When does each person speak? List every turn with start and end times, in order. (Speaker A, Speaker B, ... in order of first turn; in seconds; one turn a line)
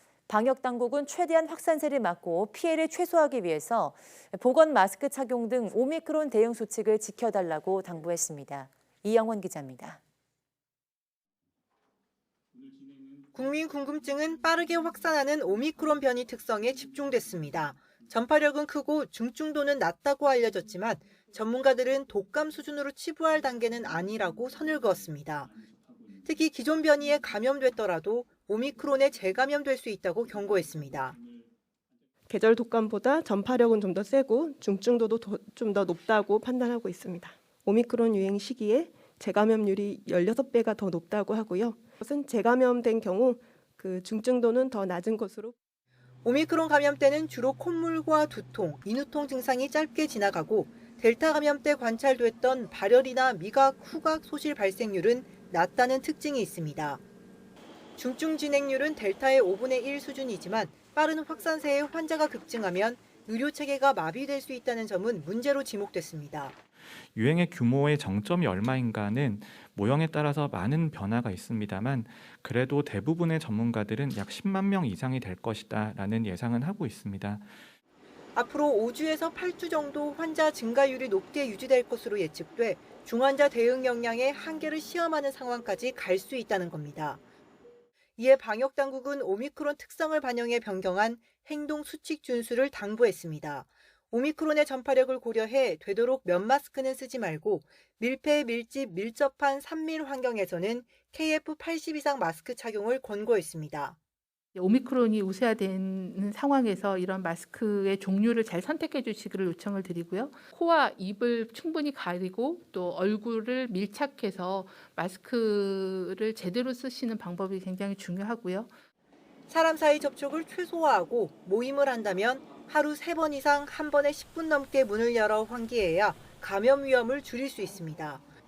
Speaker A: 0.3-10.0
Speaker B: 13.3-25.5
Speaker B: 26.2-31.2
Speaker C: 32.3-45.5
Speaker B: 46.2-57.0
Speaker B: 58.0-66.5
Speaker D: 67.1-77.6
Speaker B: 78.3-87.2
Speaker B: 88.2-104.0
Speaker E: 104.5-118.7
Speaker B: 119.5-128.2